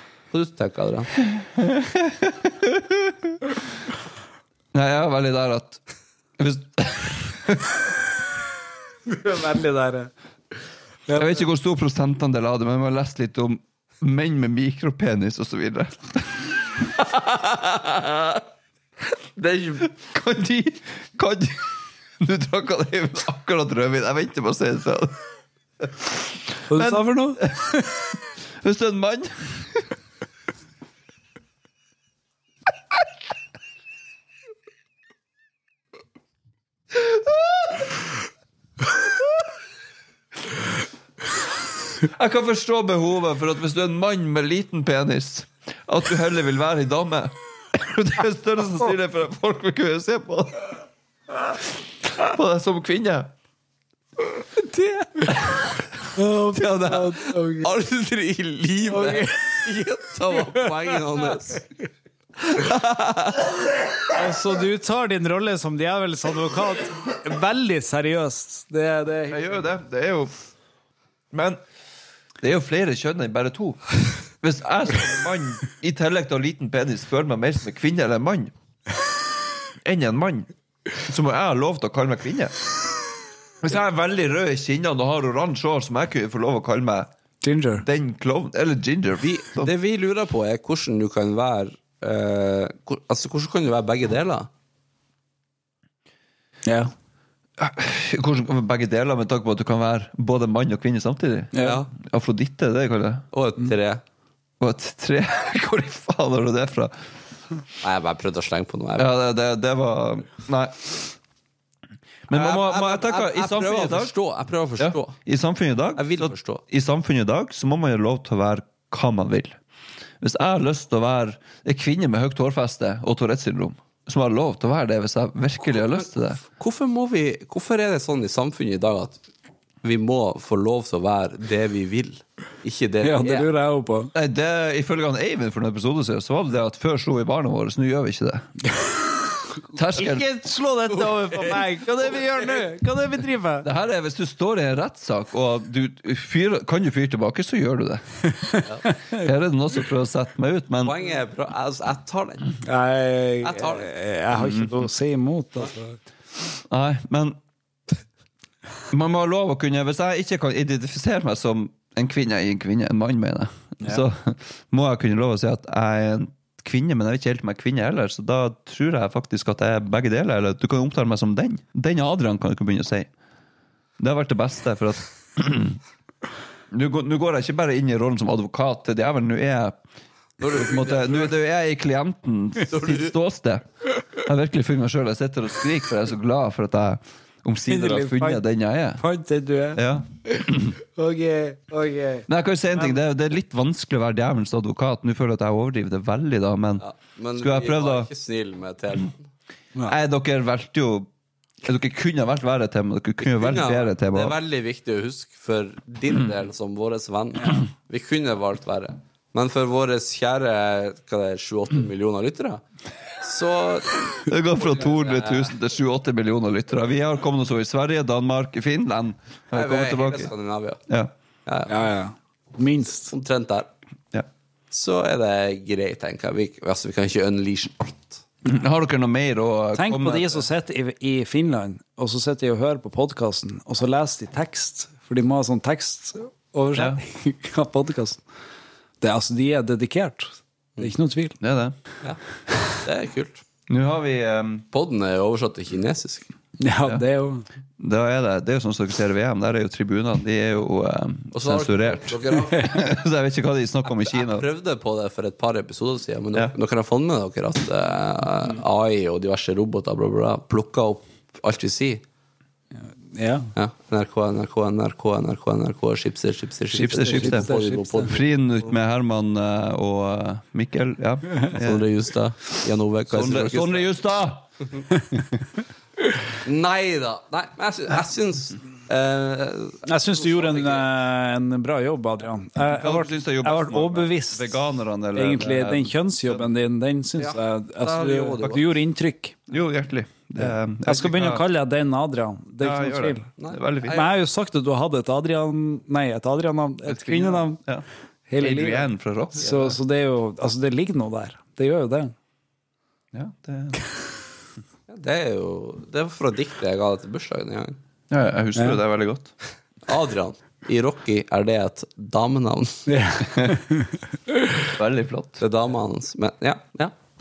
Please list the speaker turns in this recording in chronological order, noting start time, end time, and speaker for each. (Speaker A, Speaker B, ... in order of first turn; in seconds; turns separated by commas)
Speaker A: 0.3-1.1, Speaker B: 1.3-3.3, Speaker B: 4.7-5.8, Speaker B: 6.4-7.9, Speaker C: 9.1-10.1, Speaker C: 11.1-11.4, Speaker B: 11.1-16.5, Speaker A: 17.0-18.4, Speaker A: 19.4-19.8, Speaker B: 19.8-25.2, Speaker B: 25.8-26.1, Speaker C: 26.7-27.8, Speaker B: 26.7-27.7, Speaker B: 28.6-29.8, Speaker B: 36.9-37.9, Speaker B: 42.0-50.7, Speaker B: 52.0-53.3, Speaker B: 54.7-55.6, Speaker C: 56.1-57.7, Speaker A: 57.1-61.6, Speaker C: 58.9-59.6, Speaker C: 60.3-61.0, Speaker A: 62.5-63.5, Speaker C: 64.1-69.6, Speaker B: 69.3-70.3, Speaker B: 71.3-71.6, Speaker B: 72.4-73.9, Speaker B: 74.4-78.5, Speaker B: 79.8-80.5, Speaker B: 81.0-82.5, Speaker B: 83.6-87.1, Speaker C: 87.4-87.8, Speaker B: 87.8-89.7, Speaker A: 89.2-94.5, Speaker C: 96.6-96.9, Speaker B: 97.6-103.2, Speaker C: 101.5-101.8, Speaker A: 101.6-101.9, Speaker A: 103.3-104.0, Speaker B: 104.6-106.9, Speaker A: 107.8-109.1, Speaker B: 109.0-111.1, Speaker B: 112.3-114.1, Speaker A: 112.3-115.2, Speaker B: 114.8-119.6, Speaker A: 116.0-116.6, Speaker B: 120.2-126.4, Speaker A: 125.7-129.2, Speaker A: 129.8-133.5, Speaker C: 133.0-134.1, Speaker B: 134.1-138.4, Speaker B: 139.7-140.2, Speaker C: 139.9-143.7, Speaker A: 141.3-142.2, Speaker B: 143.6-148.0, Speaker B: 149.1-151.0, Speaker A: 150.8-152.6, Speaker C: 152.6-156.0, Speaker A: 153.4-153.9, Speaker B: 154.3-154.7, Speaker B: 156.7-157.4, Speaker B: 158.9-173.1, Speaker B: 174.0-175.8, Speaker B: 176.7-179.8, Speaker A: 180.4-181.3, Speaker B: 180.4-183.6, Speaker A: 182.7-183.1, Speaker B: 184.2-189.0, Speaker C: 187.7-188.4, Speaker C: 189.0-189.8, Speaker B: 189.7-190.8, Speaker C: 190.8-193.0, Speaker B: 192.3-198.1, Speaker A: 196.8-199.3, Speaker B: 199.8-201.1, Speaker B: 201.6-204.4, Speaker A: 203.2-212.6, Speaker A: 213.2-215.5, Speaker B: 214.2-220.3, Speaker A: 219.5-220.8, Speaker B: 220.9-221.1, Speaker A: 221.4-221.7, Speaker C: 221.7-223.1, Speaker A: 223.1-223.7, Speaker A: 224.7-228.2, Speaker B: 228.4-230.4, Speaker C: 229.7-238.2, Speaker B: 236.7-237.0, Speaker C: 239.0-241.4, Speaker B: 241.4-241.8, Speaker A: 242.8-243.4, Speaker B: 243.7-244.7, Speaker A: 244.7-246.3, Speaker C: 246.6-247.4, Speaker B: 247.8-254.4, Speaker A: 251.3-252.7, Speaker A: 253.8-262.0, Speaker C: 263.1-263.5, Speaker A: 263.6-268.2, Speaker B: 266.7-271.9, Speaker C: 266.8-268.1, Speaker A: 271.6-273.9, Speaker B: 273.1-274.5, Speaker A: 276.4-280.9, Speaker C: 279.8-284.6, Speaker B: 282.6-285.9, Speaker C: 285.1-289.4, Speaker A: 287.2-288.8, Speaker B: 289.5-291.4, Speaker C: 290.4-293.3, Speaker B: 292.6-294.1, Speaker C: 293.8-297.6, Speaker B: 296.9-297.9, Speaker C: 298.3-302.1, Speaker B: 298.4-299.8, Speaker B: 303.1-303.8, Speaker A: 304.9-307.8, Speaker B: 308.1-309.3, Speaker C: 308.5-308.8, Speaker A: 309.9-312.8, Speaker C: 312.9-314.0, Speaker B: 313.3-313.6, Speaker B: 314.6-315.4, Speaker A: 315.4-316.9